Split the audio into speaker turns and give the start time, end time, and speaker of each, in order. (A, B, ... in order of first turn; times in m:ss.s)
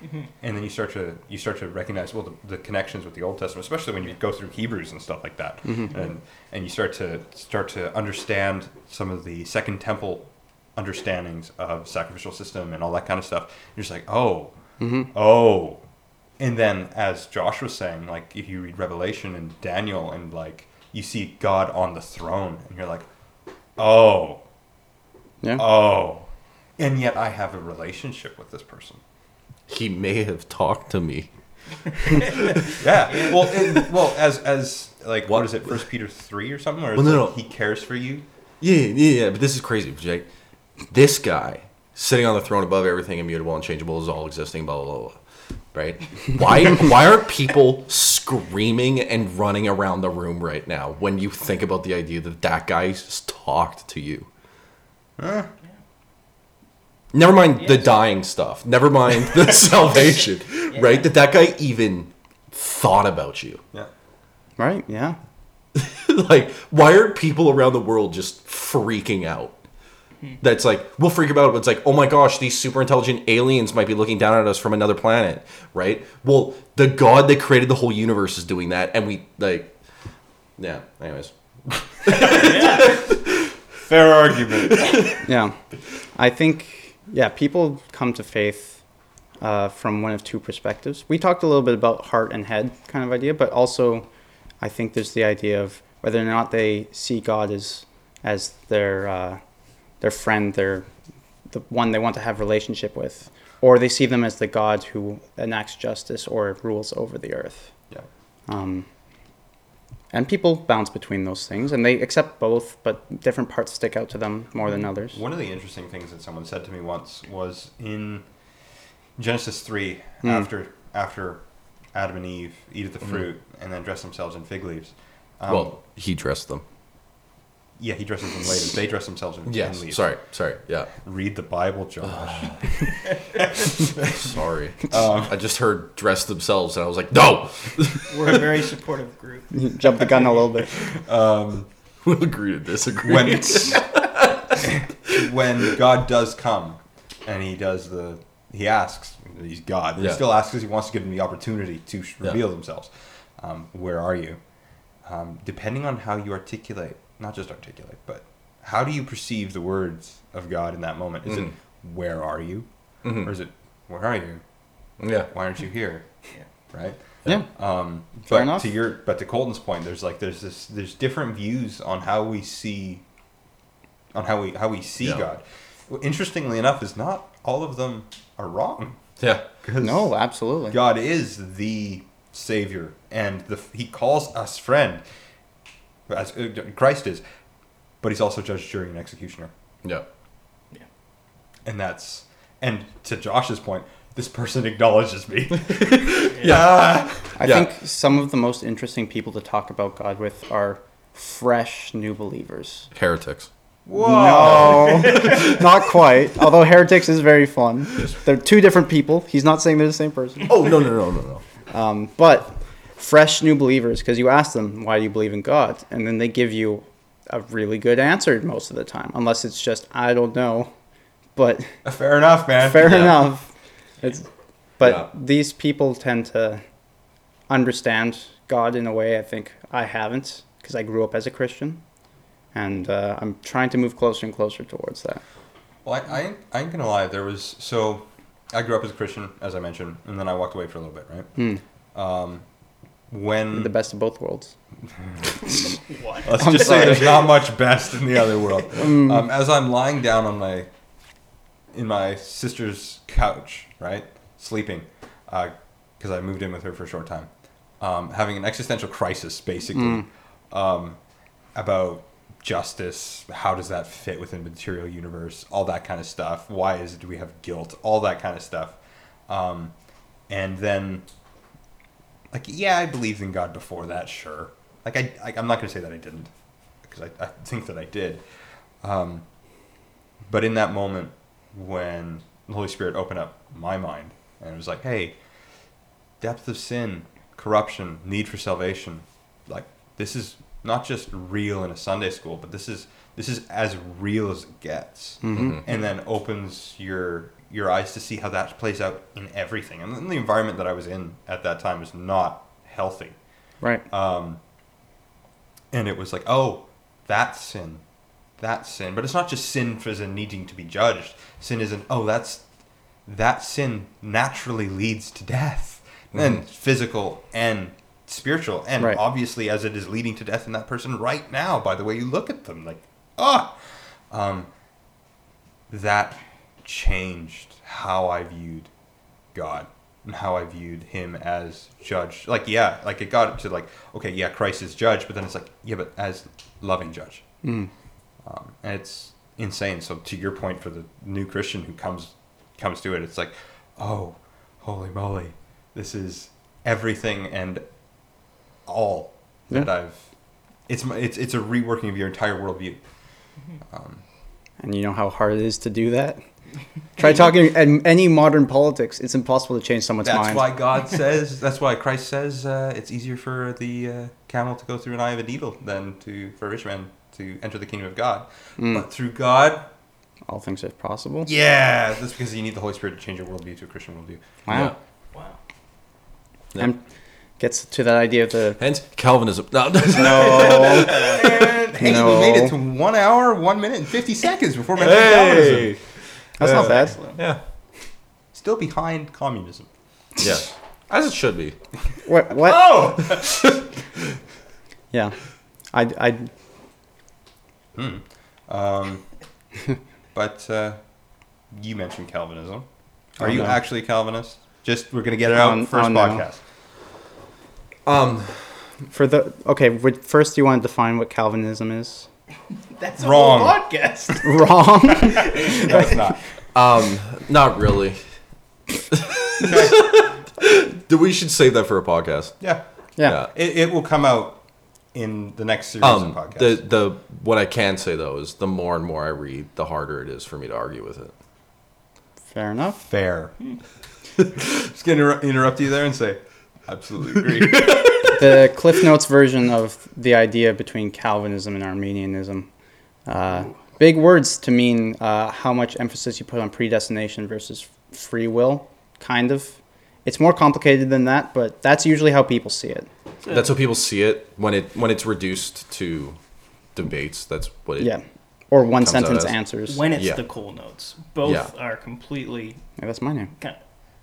0:00.4-0:14.6 A
0:05.6-0:05.9 B
0:14.8-0:15.1 B
0:15.1-0:15.8 A
0:16.4-0:23.0 A
0:23.8-0:24.4 A
0:25.6-0:29.0 A
0:29.7-0:31.3 C
0:32.0-0:33.9 C
0:32.7-0:38.2 A
0:35.3-0:35.8 C
0:36.9-0:37.4 C
0:38.6-0:40.2 C
0:40.9-0:45.2 C
0:45.7-0:54.3 C
0:55.2-0:55.5 A
0:57.1-1:03.6 C
0:57.6-0:58.0 D
1:00.7-1:01.1 D
1:04.6-1:05.2 B
1:05.7-1:09.6 C
1:10.4-1:19.7 C
1:20.6-1:21.3 C
1:22.0-1:23.5 C
1:22.1-1:22.8 A
1:22.3-1:22.8 D
1:23.8-1:25.0 A
1:24.5-1:25.2 C
1:25.2-1:25.6 B
1:26.1-1:28.8 B
1:29.4-1:34.1 B
1:34.6-1:39.4 B
1:40.0-1:40.9 B
1:41.5-1:47.7 B
1:48.5-1:48.9 B
1:50.1-1:55.2 B
1:55.1-1:58.2 A
1:59.2-2:01.4 A
2:00.2-2:00.5 B
2:01.9-2:05.7 A
2:05.5-2:06.6 C
2:07.8-2:10.0 A
2:09.4-2:10.9 C
2:11.0-2:14.3 A
2:12.1-2:12.6 C
2:13.6-2:18.4 C
2:14.9-2:15.3 A
2:18.1-2:19.5 D
2:19.5-2:20.7 B
2:20.8-2:21.7 A
2:22.0-2:25.2 C
2:23.0-2:23.8 A
2:24.6-2:34.4 A
2:30.0-2:30.2 C
2:35.0-2:42.7 A
2:41.2-2:41.5 C
2:43.0-2:43.3 C
2:43.2-2:44.4 A
2:45.0-2:45.3 C
2:45.3-2:46.0 A
2:46.7-2:53.0 A
2:48.3-2:48.7 B
2:54.1-2:59.0 A
2:55.0-2:55.2 C
2:59.2-2:59.5 C
2:59.6-3:00.1 A
2:59.8-3:00.8 B
3:00.7-3:05.0 A
3:06.1-3:07.2 A
3:08.0-3:09.5 A
3:11.6-3:17.4 A
3:15.7-3:17.7 C
3:17.4-3:22.9 B
3:22.9-3:23.5 C
3:23.8-3:25.4 A
3:24.0-3:30.7 B
3:24.4-3:25.6 C
3:30.4-3:31.4 C
3:31.7-3:40.7 B
3:41.4-3:41.8 B
3:41.8-3:43.2 A
3:42.6-3:43.5 B
3:42.8-3:43.1 C
3:44.8-3:46.6 B
3:44.8-3:45.1 C
3:47.5-3:51.8 B
3:52.5-3:55.2 B
3:55.8-4:01.3 A
4:01.9-4:02.4 A
4:03.1-4:03.7 A
4:03.5-4:04.5 B
4:05.0-4:10.7 A
4:05.9-4:06.9 D
4:06.3-4:07.2 B
4:08.8-4:09.2 B
4:11.7-4:21.0 A
4:19.7-4:20.0 B
4:21.5-4:28.8 A
4:29.3-4:29.7 A
4:30.3-4:31.0 A
4:32.3-4:36.3 A
4:36.8-4:38.2 A
4:38.8-4:39.2 A
4:40.3-4:45.2 A
4:46.2-5:03.2 A
4:55.2-4:55.6 B
4:55.3-4:55.6 C
5:03.9-5:04.4 A
5:05.7-5:07.8 A
5:08.4-5:12.4 A
5:13.0-5:23.5 A
5:24.1-5:24.5 A
5:25.7-5:28.7 A
5:29.3-5:37.2 A
5:37.4-5:37.7 B
5:38.2-5:47.6 A
5:48.6-5:50.0 A
5:50.7-5:52.8 A
5:53.7-5:54.0 A
5:54.6-5:56.2 B
5:57.0-6:00.4 B
6:00.0-6:09.7 A
6:08.6-6:08.8 B
6:10.3-6:11.3 B
6:11.2-6:14.2 A
6:14.5-6:14.7 B
6:14.5-6:14.7 C
6:17.4-6:18.6 B
6:18.6-6:21.4 C
6:19.9-6:22.5 B
6:20.5-6:25.7 A
6:20.8-6:21.2 D
6:24.8-6:25.8 C
6:26.4-6:27.0 B
6:26.4-6:27.4 C
6:26.5-6:27.2 D
6:28.3-6:29.7 A
6:30.2-6:31.6 C
6:32.0-6:32.9 B
6:32.4-6:33.6 A
6:35.7-6:36.3 B
6:37.7-6:39.0 A
6:40.1-6:40.8 A
6:41.5-6:42.6 A
6:43.2-6:46.4 A
6:43.2-6:43.6 B
6:45.3-6:46.2 B
6:47.8-6:48.5 C
6:48.9-6:52.1 B
6:52.8-6:54.4 D
6:53.0-6:53.6 A
6:54.2-6:56.0 B
6:55.1-6:56.2 A
6:55.2-6:55.7 D
6:56.5-6:58.0 C
6:58.9-7:02.4 C
6:59.4-7:00.0 A
7:03.0-7:03.3 C
7:03.3-7:04.4 A
7:04.9-7:06.6 A
7:05.8-7:11.1 C
7:12.3-7:12.8 B
7:12.8-7:13.3 A
7:14.3-7:18.1 A
7:17.6-7:18.1 C
7:18.1-7:22.5 B
7:23.1-7:32.9 B
7:33.2-7:33.5 D
7:33.3-7:36.2 C
7:36.7-7:37.9 C
7:37.8-7:39.8 B
7:38.8-7:39.3 C
7:39.7-7:42.6 D
7:39.9-7:40.2 C
7:41.2-7:41.5 C
7:42.8-7:43.3 B